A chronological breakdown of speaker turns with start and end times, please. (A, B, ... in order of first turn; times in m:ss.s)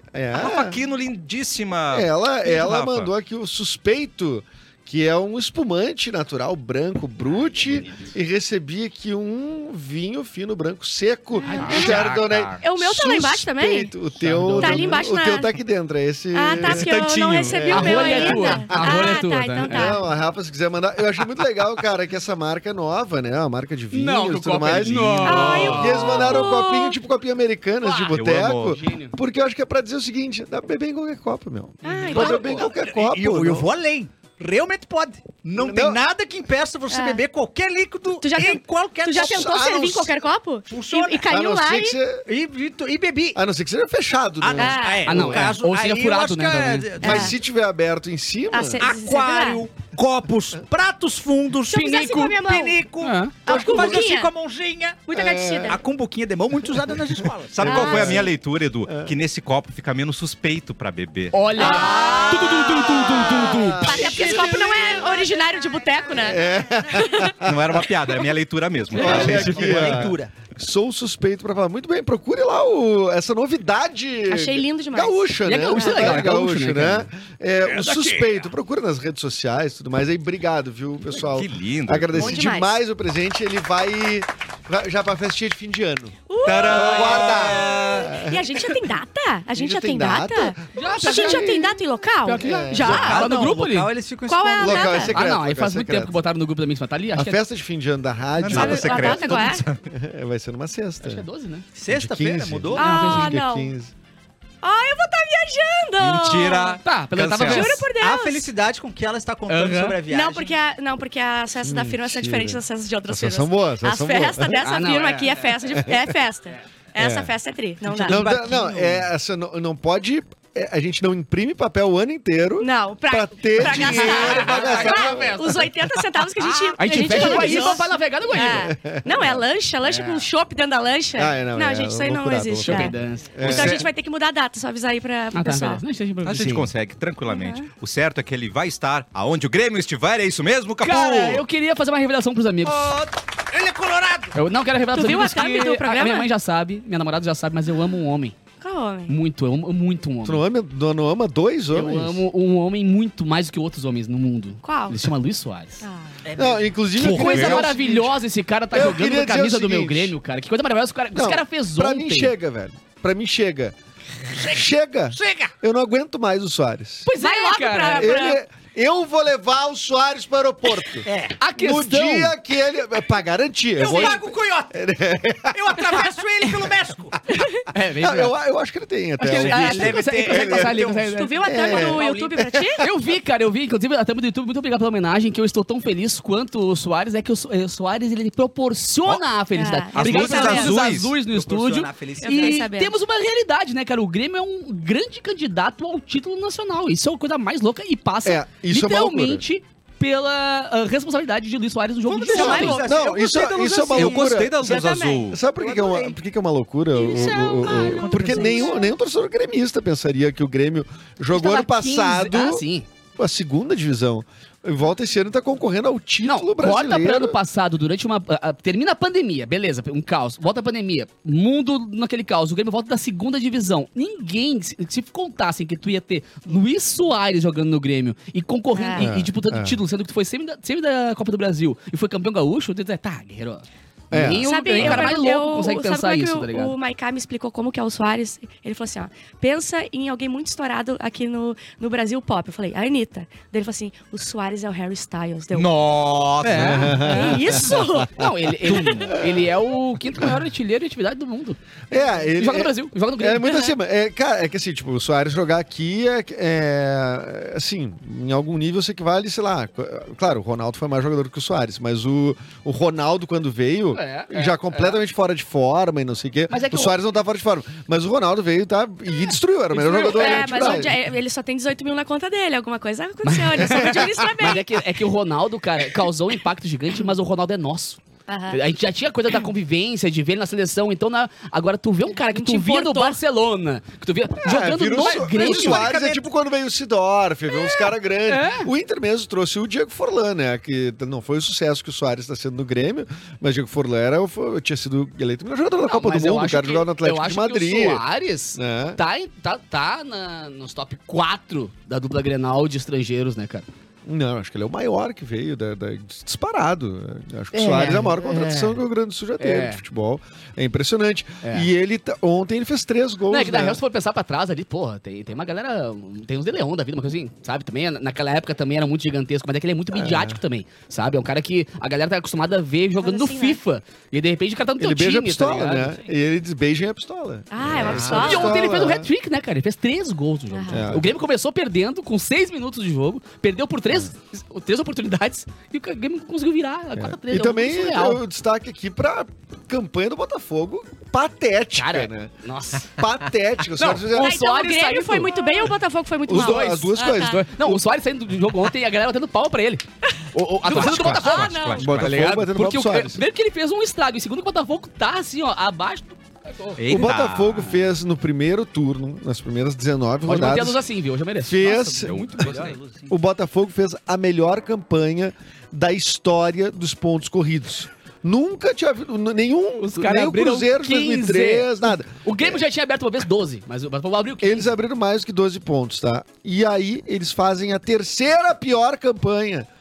0:00.1-0:00.8 A
0:00.3-0:03.1 B
0:01.9-0:33.7 A
0:11.4-0:12.0 C
0:11.6-0:12.6 B
0:11.6-0:12.0 D
0:12.6-0:13.9 D
0:14.1-0:15.0 C
0:14.6-0:15.5 D
0:16.3-0:20.0 D
0:16.6-0:18.5 B
0:17.7-0:20.0 C
0:23.9-0:26.2 C
0:25.2-0:27.0 D
0:27.8-0:29.1 C
0:28.1-0:28.8 B
0:31.8-0:32.6 D
0:31.8-0:32.6 C
0:32.2-0:39.6 E
0:35.6-0:36.0 A
0:36.9-0:37.2 D
0:38.2-0:42.0 D
0:39.2-0:40.2 A
0:40.7-0:41.3 E
0:41.3-0:42.2 A
0:42.3-0:43.4 E
0:43.4-0:45.4 A
0:44.4-0:47.4 E
0:44.6-0:45.3 D
0:45.1-0:47.0 C
0:47.0-0:48.9 A
0:47.0-0:47.4 D
0:48.5-0:49.6 D
0:48.8-0:55.1 E
0:51.7-0:52.8 D
0:53.0-0:53.4 C
0:53.4-0:54.3 D
0:55.1-0:55.8 D
0:55.1-0:55.8 A
0:55.6-0:58.2 E
0:57.5-1:01.5 B
0:57.6-0:58.3 D
0:57.6-0:58.3 A
0:58.9-0:59.1 A
1:01.3-1:04.3 C
1:01.6-1:07.4 D
1:01.7-1:02.2 E
1:02.9-1:04.8 A
1:04.0-1:05.2 E
1:06.1-1:07.8 A
1:07.4-1:10.1 B
1:08.9-1:10.3 E
1:09.0-1:28.7 A
1:09.0-1:09.4 C
1:14.3-1:16.3 D
1:15.5-1:17.1 C
1:17.6-1:18.5 E
1:21.1-1:22.4 B
1:22.2-1:22.8 D
1:26.3-1:27.6 D
1:26.4-1:28.2 B
1:28.1-1:33.5 D
1:29.6-1:33.2 A
1:30.7-1:31.5 C
1:32.2-1:33.9 C
1:32.8-1:35.1 E
1:34.3-1:35.2 D
1:34.6-1:36.2 A
1:35.1-1:37.4 C
1:37.2-1:41.2 A
1:38.4-1:39.8 B
1:38.5-1:39.6 D
1:41.0-1:41.6 C
1:41.8-1:42.9 E
1:41.9-1:43.9 A
1:42.8-1:43.4 C
1:42.8-1:43.7 D
1:44.6-1:46.8 D
1:46.0-1:47.8 B
1:46.8-1:47.9 C
1:47.4-1:48.5 D
1:48.0-1:50.5 E
1:49.5-1:50.0 C
1:50.1-1:58.2 D
1:51.6-1:54.6 A
1:54.6-1:55.5 C
1:55.8-1:56.2 A
1:57.0-1:57.3 A
1:57.9-1:59.1 E
1:58.0-2:05.6 A
2:02.6-2:15.8 D
2:03.6-2:08.8 C
2:07.1-2:07.8 E
2:08.5-2:09.4 A
2:09.8-2:10.3 C
2:11.2-2:13.9 A
2:12.6-2:13.8 C
2:15.3-2:16.7 C
2:16.2-2:21.4 B
2:17.3-2:17.7 D
2:20.8-2:23.0 C
2:22.6-2:24.4 E
2:24.3-2:28.4 C
2:24.9-2:26.3 D
2:28.6-2:29.2 D
2:29.1-2:30.5 C
2:30.2-2:32.2 A
2:31.7-2:35.8 C
2:34.6-2:35.1 D
2:35.8-2:36.2 D
2:36.2-2:36.7 E
2:36.4-2:38.2 A
2:37.0-2:42.3 C
2:37.0-2:37.6 B
2:38.7-2:40.2 A
2:41.1-2:43.8 A
2:44.3-2:45.5 E
2:44.4-2:47.1 A
2:47.1-2:48.2 C
2:47.1-2:48.4 D
2:48.0-2:55.8 A
2:51.0-2:51.4 E
2:51.4-2:52.4 C
2:53.8-2:54.8 E
2:53.8-2:54.2 D
2:55.5-2:57.2 E
2:57.3-2:57.6 D
2:57.7-2:58.4 C
2:58.0-3:00.8 A
2:59.2-3:01.8 C
2:59.4-3:02.3 E
3:01.1-3:02.8 D
3:01.4-3:02.8 A
3:02.8-3:22.8 C
3:09.5-3:10.8 D
3:09.9-3:11.2 B
3:10.2-3:10.7 E
3:11.3-3:12.6 E
3:12.2-3:13.0 D
3:18.2-3:19.4 A
3:22.1-3:26.2 E
3:22.3-3:23.1 D
3:22.4-3:24.8 A
3:23.9-3:25.4 B
3:24.6-3:25.2 D
3:25.3-3:32.6 A
3:27.0-3:28.9 D
3:27.1-3:28.7 C
3:27.2-3:28.7 E
3:31.3-3:32.9 C
3:33.2-3:37.4 A
3:36.2-3:56.8 C
3:48.8-3:49.1 D
3:49.0-3:49.8 A
3:54.1-3:55.1 A
3:54.4-4:05.7 D
4:05.5-4:07.2 B
4:06.4-4:11.6 C
4:06.6-4:08.3 A
4:07.0-4:08.2 D
4:09.1-4:09.5 A
4:11.9-4:31.0 A
4:12.2-4:13.6 C
4:13.4-4:13.8 D
4:23.9-4:25.0 C
4:26.5-4:27.0 C
4:29.7-4:31.0 C
4:29.9-4:34.6 D
4:33.2-4:45.9 C
4:38.3-4:38.6 D
4:42.2-4:43.2 D
4:44.4-4:58.0 A
4:45.1-4:46.2 E
4:47.6-4:47.8 D
4:48.3-4:48.7 C
4:55.9-5:03.7 C
4:58.6-4:59.0 A
5:04.1-5:13.8 A
5:07.5-5:08.8 C
5:09.4-5:09.8 C
5:11.4-5:11.7 C
5:13.3-5:26.0 C
5:19.9-5:20.4 A
5:23.0-5:23.6 D
5:24.8-5:29.1 A
5:27.5-5:28.7 D
5:27.8-5:28.2 B
5:28.0-5:38.2 C
5:30.5-5:30.9 D
5:30.7-5:31.1 A
5:37.0-5:42.3 A
5:41.8-5:42.9 C
5:42.9-5:44.4 A
5:43.8-5:45.7 C
5:44.1-5:47.4 D
5:46.2-5:47.8 A
5:46.3-5:57.1 C
5:50.1-5:51.9 D
5:50.7-5:52.2 B
5:50.7-5:53.2 A
5:56.8-5:57.7 B
5:56.9-6:00.8 A
6:00.2-6:02.8 C
6:01.4-6:02.2 A
6:02.0-6:03.1 E
6:02.4-6:02.7 B
6:03.1-6:12.6 A
6:09.8-6:14.7 C
6:14.4-6:19.7 A